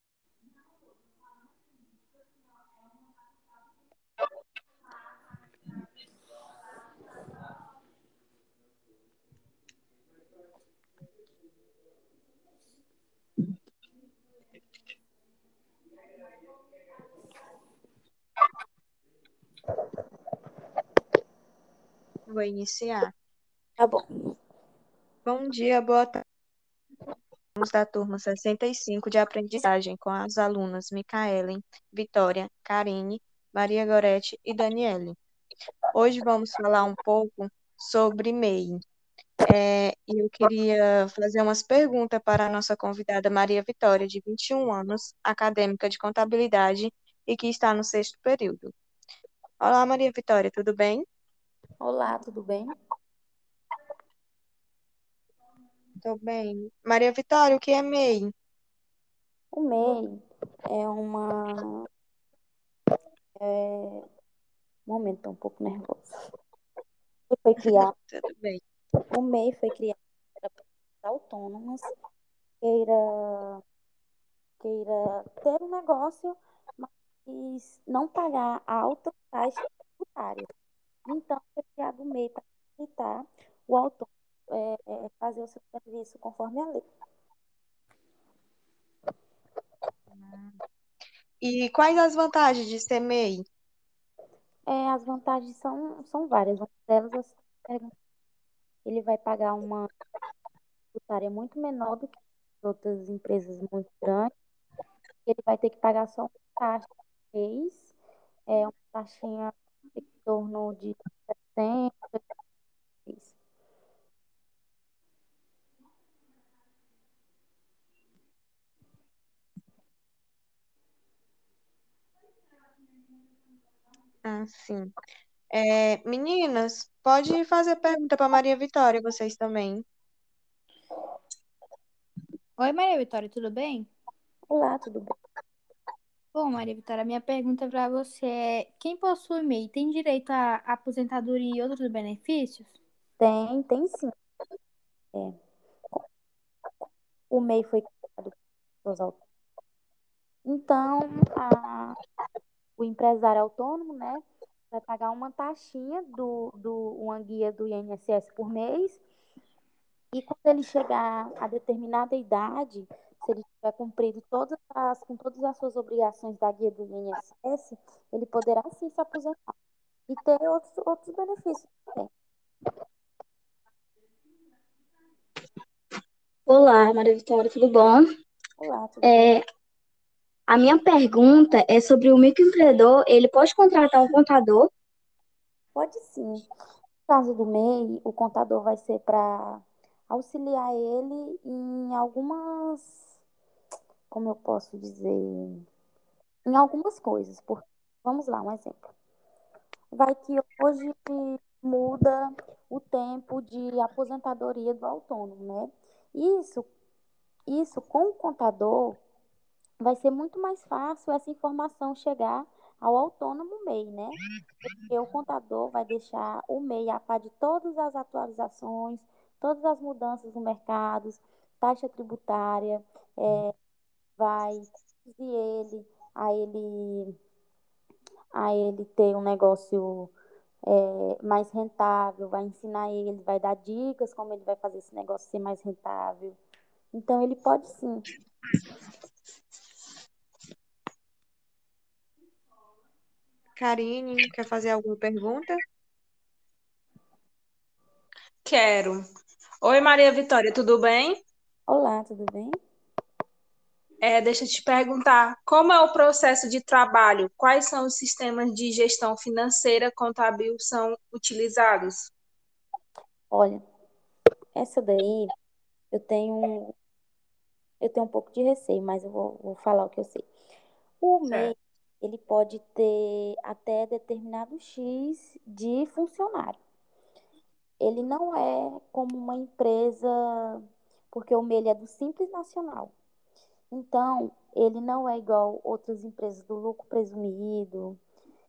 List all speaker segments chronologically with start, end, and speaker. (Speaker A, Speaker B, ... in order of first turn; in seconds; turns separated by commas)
Speaker A: 22.3-23.1, Speaker B: 23.8-24.1, Speaker A: 25.2-26.2, Speaker A: 27.6-35.2, Speaker A: 35.9-38.8, Speaker A: 39.5-48.7, Speaker A: 49.6-51.0, Speaker B: 51.8-52.7, Speaker A: 56.0-58.3, Speaker B: 59.5-61.9, Speaker B: 63.4-64.1, Speaker B: 64.9-66.1, Speaker B: 67.3-67.9, Speaker A: 67.7-68.6, Speaker B: 69.1-71.9, Speaker B: 72.6-73.6, Speaker B: 74.6-80.5, Speaker B: 81.1-86.8, Speaker A: 90.1-90.6, Speaker A: 91.4-93.4, Speaker B: 94.7-97.9, Speaker B: 98.8-99.9, Speaker B: 100.9-104.3, Speaker B: 105.3-107.9, Speaker B: 108.5-112.2, Speaker B: 113.1-113.3, Speaker A: 124.2-124.9, Speaker A: 125.5-129.8, Speaker C: 132.6-133.9, Speaker B: 134.5-135.2, Speaker C: 136.3-142.7, Speaker B: 143.2-144.1, Speaker B: 147.3-149.2, Speaker B: 150.5-152.0, Speaker B: 152.8-159.0, Speaker B: 160.1-169.5, Speaker B: 170.1-172.1, Speaker D: 176.5-178.1, Speaker B: 178.6-179.3, Speaker D: 179.0-179.4, Speaker D: 180.5-184.7, Speaker B: 185.8-186.5, Speaker B: 187.1-193.0, Speaker B: 194.1-195.6, Speaker B: 196.5-198.9, Speaker B: 199.9-206.7, Speaker B: 207.5-209.0, Speaker B: 209.8-214.2, Speaker B: 214.7-223.5, Speaker B: 224.2-227.2, Speaker B: 228.4-230.1, Speaker B: 230.7-236.4, Speaker B: 236.9-238.1, Speaker A: 243.6-245.6, Speaker E: 248.4-249.0, Speaker E: 249.6-251.2, Speaker B: 251.7-252.6, Speaker E: 254.0-262.1, Speaker B: 263.3-263.6, Speaker B: 264.6-265.3, Speaker B: 265.9-266.7, Speaker B: 267.8-270.3, Speaker B: 271.0-276.6, Speaker E: 271.3-271.5, Speaker B: 277.8-282.9, Speaker B: 283.7-288.0